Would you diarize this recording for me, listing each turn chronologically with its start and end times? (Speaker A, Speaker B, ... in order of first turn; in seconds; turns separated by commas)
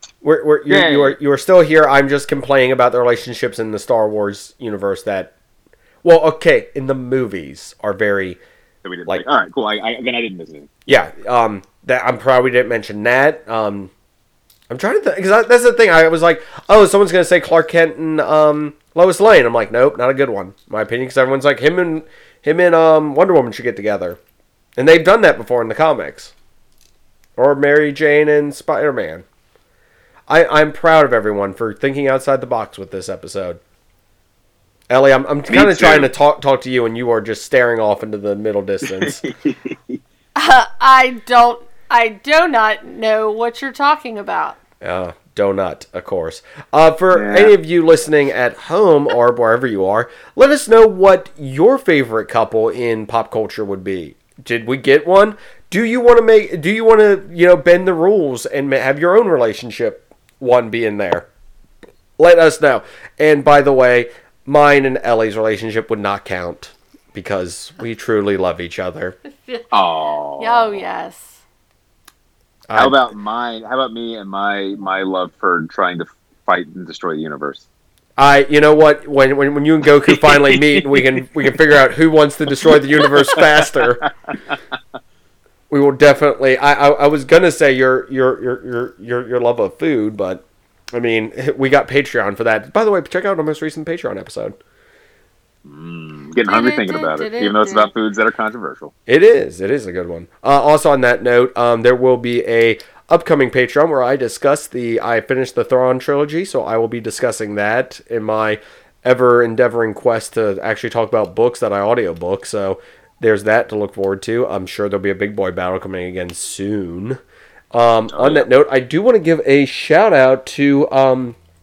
Speaker A: 0.2-5.3, Speaker B: 0.7-1.1, Speaker A: 6.0-8.4, Speaker B: 8.8-10.7, Speaker A: 10.8-13.9, Speaker A: 14.7-24.2, Speaker A: 24.8-26.3, Speaker A: 27.4-29.2, Speaker A: 30.3-33.6, Speaker A: 34.9-39.2, Speaker B: 35.5-36.1, Speaker B: 38.8-40.0, Speaker C: 40.4-44.6, Speaker A: 44.8-61.3, Speaker B: 47.1-47.5, Speaker A: 62.2-69.2, Speaker B: 69.7-70.8, Speaker C: 70.4-71.4, Speaker A: 72.7-73.1, Speaker B: 72.7-77.7, Speaker A: 78.2-84.0, Speaker B: 80.1-81.2, Speaker B: 82.6-84.6, Speaker A: 85.7-94.5, Speaker B: 95.6-98.9, Speaker C: 96.5-97.9, Speaker A: 99.1-117.2, Speaker A: 117.7-121.4, Speaker B: 118.1-118.5